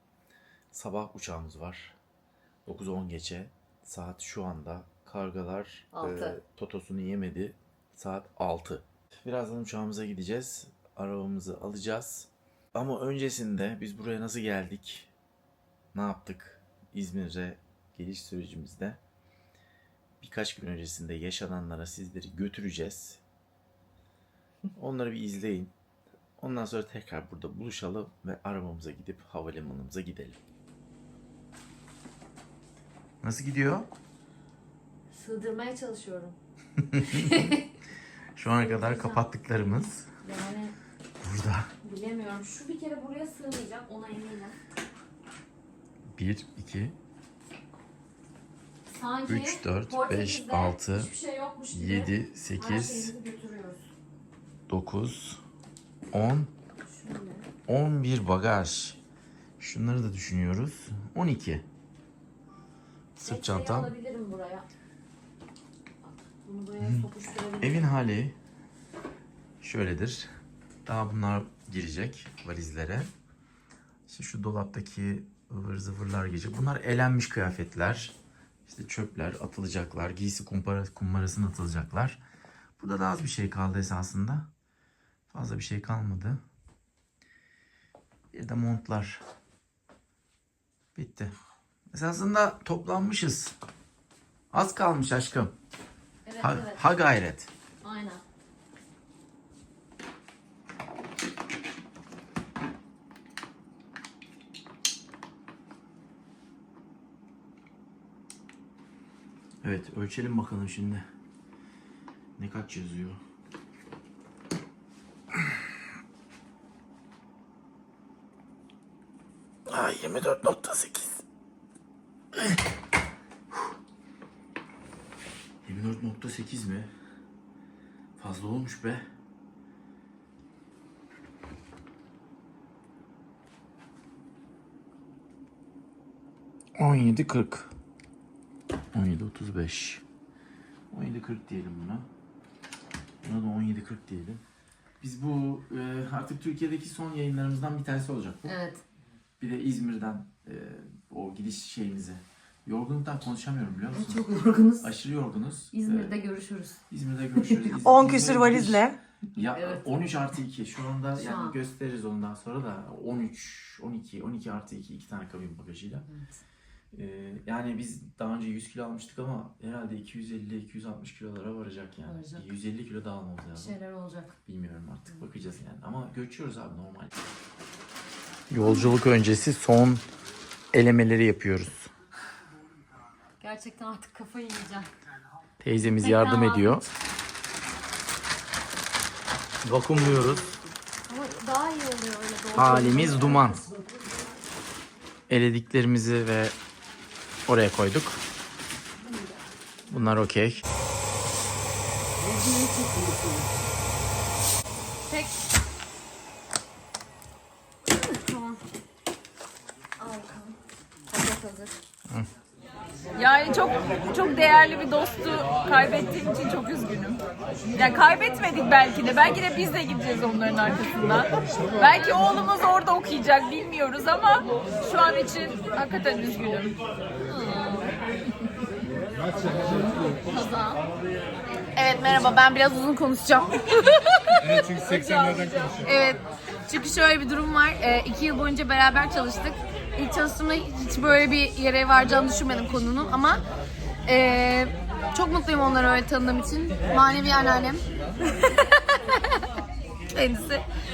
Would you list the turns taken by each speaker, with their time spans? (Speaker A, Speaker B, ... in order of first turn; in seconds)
Speaker A: 0.7-1.9, 2.7-15.1, 15.9-19.0, 20.2-23.2, 24.8-25.7, 26.4-30.4, 33.2-33.9, 36.8-37.5, 38.4-40.1, 41.2-41.7, 46.2-47.0, 49.3-51.1, 51.7-53.1, 54.7-55.4, 56.1-56.5, 57.7-59.0, 59.6-61.6, 63.2-63.9, 67.6-68.4, 69.6-70.3, 70.9-73.1, 74.1-78.2, 78.7-82.2, 82.8-84.5, 85.3-86.4, 88.3-89.2, 91.0-91.3, 91.9-93.6, 94.5-95.5, 96.4-97.5, 109.6-111.1, 112.4-113.2, 119.7-121.2, 125.7-126.9, 128.2-129.1, 136.8-137.7, 138.9-140.0, 140.9-142.1, 143.2-144.4, 145.0-148.6, 149.4-154.2, 154.8-156.1, 156.9-158.8, 159.3-166.1, 166.9-173.8, 174.4-177.1, 178.5-180.0, 180.7-181.9, 185.6-186.8, 189.6-190.5, 192.6-193.6, 195.3-196.6, 197.5-198.2, 199.9-200.6
Speaker B: 5.9-6.4, 35.1-36.4, 37.0-37.7, 38.5-39.3, 40.2-40.7, 41.8-44.6, 48.9-53.9, 56.9-57.5, 63.2-64.7, 66.0-68.0, 96.3-96.8, 97.8-98.2, 148.5-148.8, 153.9-154.9, 155.7-156.8, 157.4-157.8, 159.6-159.9, 161.2-161.6, 166.1-166.3, 172.1-172.6, 173.6-174.3, 178.6-178.9, 183.4-184.9, 185.9-186.8, 191.1-194.2, 199.1-199.3, 202.3-203.5, 207.9-208.6, 210.0-210.5, 211.2-211.7, 227.2-227.9
Speaker C: 157.9-159.0, 213.2-217.2, 217.7-226.7, 230.3-230.8, 231.8-234.4, 234.9-243.4, 244.1-247.8, 250.1-250.7
Speaker D: 229.1-230.2, 234.4-235.9